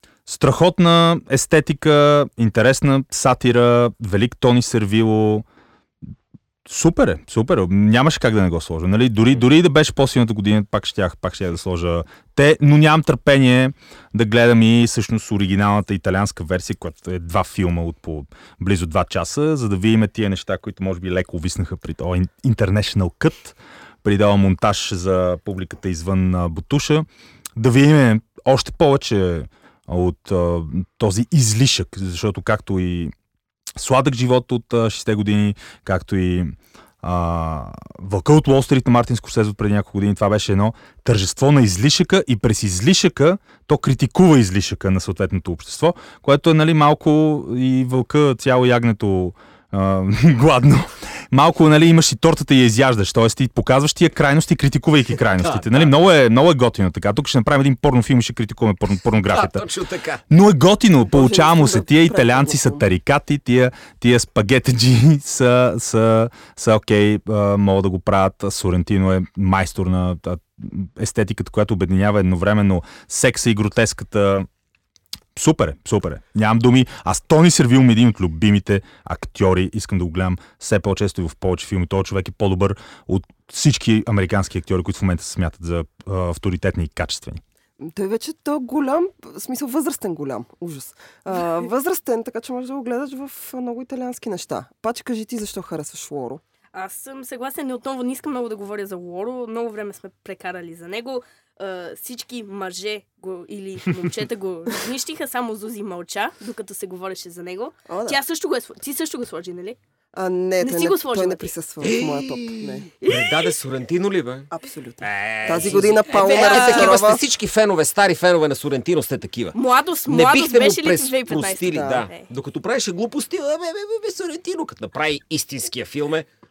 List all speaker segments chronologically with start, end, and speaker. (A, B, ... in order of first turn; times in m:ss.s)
0:00.2-0:05.4 A
0:06.6-0:33.1 A
0:33.8-0:59.6 A
0:55.4-0:55.9 B
0:59.2-1:00.2 B
1:00.3-1:14.5 A
1:01.1-1:02.8 C
1:15.3-1:27.4 A
1:27.8-1:36.4 C
1:36.7-1:49.8 D
1:47.9-1:48.2 C
1:50.1-1:52.9 C
1:50.6-1:51.5 D
1:51.8-1:54.5 B
1:53.0-1:53.5 D
1:54.5-1:57.2 C
1:55.0-2:06.3 B
1:56.1-1:57.0 D
1:59.5-2:02.3 D
2:01.7-2:02.1 C